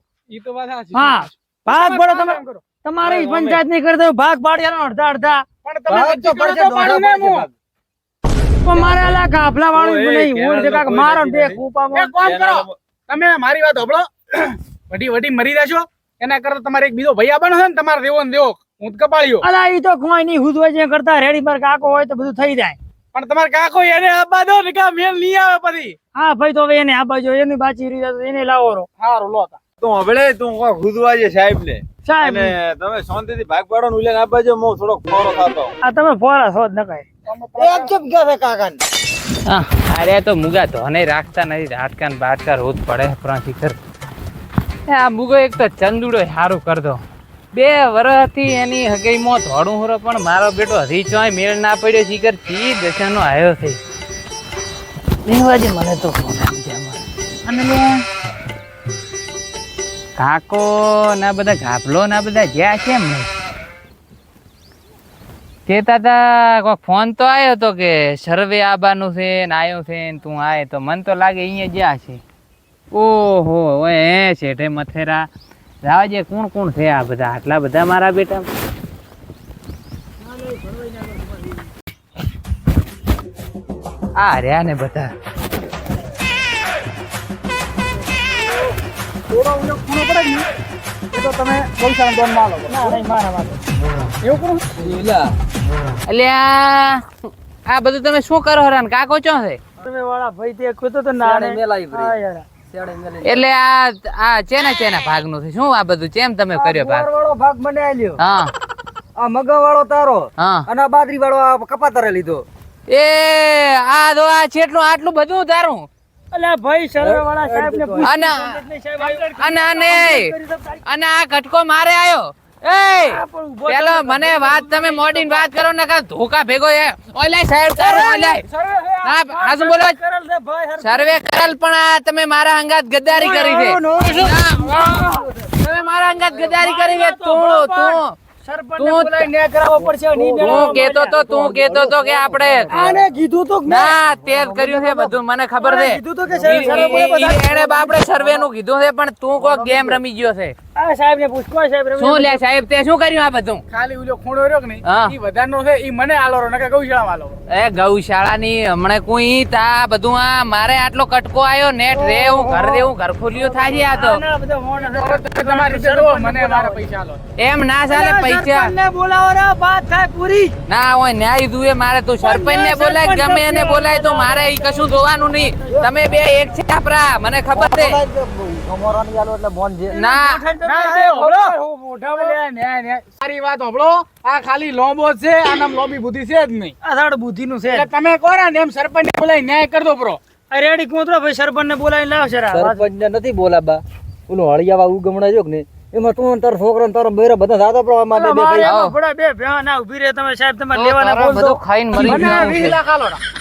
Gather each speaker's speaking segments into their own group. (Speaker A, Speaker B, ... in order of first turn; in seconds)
Speaker A: 0.3-3.6, 5.6-7.5, 11.9-19.4, 23.1-26.0, 29.0-29.6, 37.3-37.9, 89.3-90.5, 91.1-93.0, 94.2-94.6, 127.7-129.8, 153.7-157.4, 164.8-167.2, 180.6-186.7, 187.7-190.2, 201.9-203.2
Speaker B: 0.9-5.5, 8.6-12.2, 19.4-22.8, 26.1-28.9, 32.0-32.5, 35.8-37.1, 55.4-55.9, 80.5-81.2, 92.7-93.6, 99.8-102.5, 116.3-120.8, 123.0-125.2, 129.7-131.2, 133.1-135.3, 136.3-141.2, 142.7-143.9, 145.6-147.9, 150.8-152.4, 161.9-166.8, 167.9-170.6, 172.2-175.9, 179.9-182.4, 186.8-187.9, 190.5-192.8, 198.2-202.8
Speaker C: 5.9-7.5, 37.6-38.8, 94.8-95.3, 101.2-102.2, 102.7-103.5, 106.5-108.2, 109.2-112.5, 117.0-118.1, 139.8-143.1, 144.1-145.2, 146.3-147.1, 148.0-148.5, 149.4-150.0, 175.7-176.1, 177.5-180.0, 192.5-198.7
Speaker D: 8.7-9.2, 9.7-11.6, 12.2-12.8, 29.8-35.7
Speaker E: 39.5-43.8, 44.9-47.0, 47.5-53.8, 55.3-57.9, 60.2-63.3, 65.7-72.2, 72.9-75.3, 75.8-78.5, 84.2-85.1, 96.1-97.0, 97.7-99.6, 103.2-107.1, 108.2-108.5, 110.4-110.7, 112.9-115.9, 118.0-118.6, 119.1-120.3, 120.8-128.4, 129.0-129.9, 130.8-138.2, 138.8-139.3, 140.4-142.8, 143.7-150.6, 152.0-153.6, 154.8-155.1, 157.5-164.2, 167.4-168.7, 170.7-178.0, 179.9-180.4, 198.6-198.9, 200.7-202.8